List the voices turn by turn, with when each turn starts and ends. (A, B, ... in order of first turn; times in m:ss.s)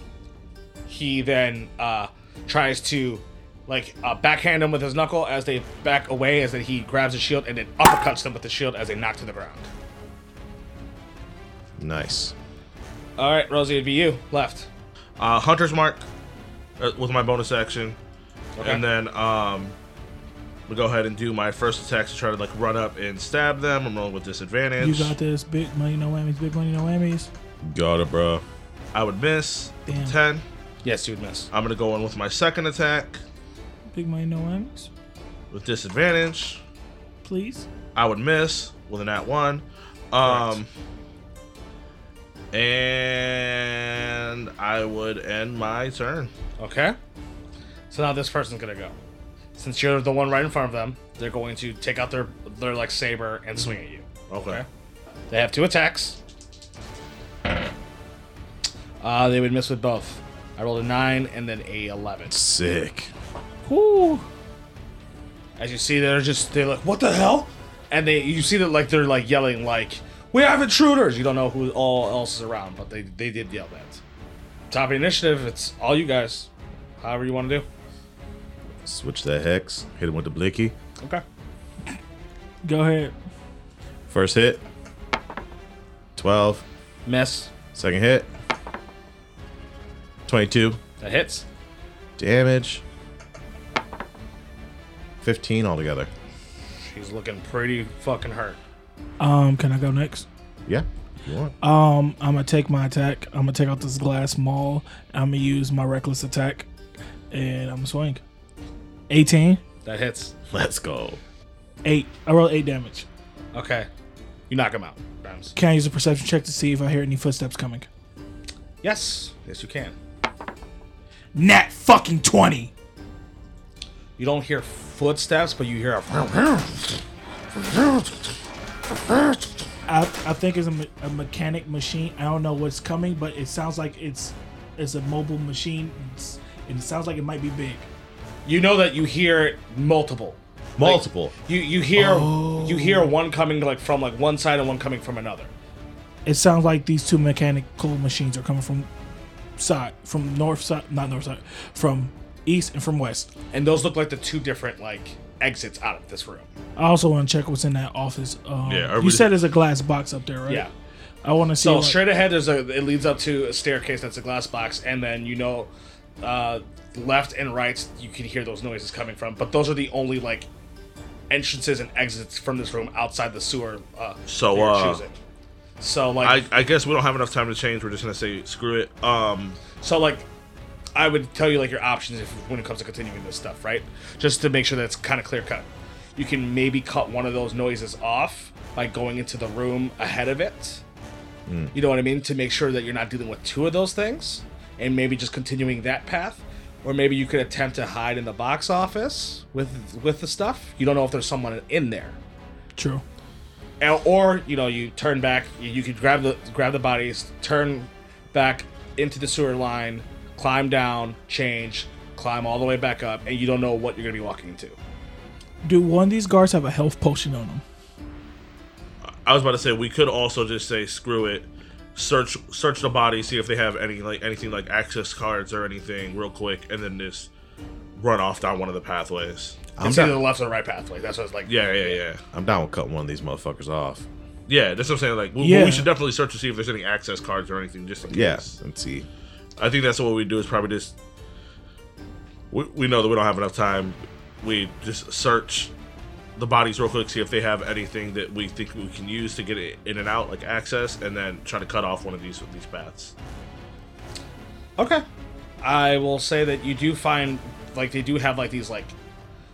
0:00.9-0:09.7 A
0:11.8-0:12.3 B
0:13.2-0:14.7 A
0:15.2-0:16.1 C
0:16.8-0:18.0 C
0:18.6-0:18.8 A
0:18.6-0:19.7 C
0:20.7-0:25.1 C
0:24.8-0:27.3 D
0:27.6-0:28.4 B
0:28.9-0:30.4 C
0:29.9-0:30.2 D
0:30.8-0:31.5 A
0:31.5-0:33.2 C
0:33.9-0:34.9 D
0:35.5-0:36.6 C
0:37.2-0:37.7 D
0:37.9-0:40.7 C
0:40.2-0:40.6 A
0:42.5-0:46.3 C
0:46.6-0:47.0 A
0:47.9-0:49.0 A
0:49.6-0:54.6 A
0:54.3-0:54.6 C
0:55.3-0:56.2 A
0:59.0-1:02.3 A
1:02.3-1:03.1 B
1:03.7-1:04.2 D
1:05.6-1:14.0 A
1:14.7-1:16.5 A
1:17.0-1:17.6 A
1:18.8-1:20.7 B
1:22.6-1:23.1 D
1:24.1-1:24.6 B
1:26.2-1:26.6 B
1:27.0-1:27.5 A
1:27.7-1:28.3 B
1:30.3-1:30.8 B
1:31.0-1:31.4 A
1:32.2-1:32.8 B
1:35.2-1:36.1 B
1:36.8-1:38.6 A
1:39.2-1:40.2 D
1:40.7-1:41.5 B
1:41.6-1:46.7 D
1:47.3-1:48.2 D
1:49.1-1:49.6 D
1:49.8-1:50.3 A
1:50.5-1:51.2 B
1:51.8-1:53.0 D
1:53.5-1:53.9 A
1:54.5-1:55.5 A
1:55.5-1:57.9 D
1:58.8-1:59.9 A
2:01.3-2:02.7 D
2:04.2-2:07.0 A
2:07.6-2:08.2 A
2:09.1-2:09.4 A
2:09.9-2:17.9 D
2:18.4-2:25.5 A
2:20.8-2:21.3 B
2:22.0-2:23.1 B
2:26.2-2:28.9 D
2:29.6-2:33.3 D
2:33.5-2:36.5 A
2:36.8-2:40.7 D
2:38.6-2:39.4 C
2:41.2-2:42.0 D
2:41.6-2:50.5 A
2:51.3-2:55.1 A
2:54.3-2:55.0 C
2:55.8-2:56.5 A
2:56.2-2:59.6 C
2:59.7-3:00.3 A
3:00.9-3:10.8 A
3:11.5-3:11.7 B
3:11.7-3:22.2 A
3:22.8-3:23.0 D
3:23.8-3:34.8 A
3:35.6-3:37.6 D
3:39.2-3:47.3 C
3:48.0-3:49.6 C
3:49.8-3:50.2 B
3:49.8-3:52.0 A
3:51.4-3:52.2 C
3:52.3-3:54.0 B
3:54.5-3:58.5 C
3:55.4-3:55.9 D
3:58.1-3:59.1 B
3:59.6-4:00.9 C
4:02.5-4:05.7 C
4:06.4-4:13.1 C
4:14.8-4:15.0 A
4:15.6-4:18.9 A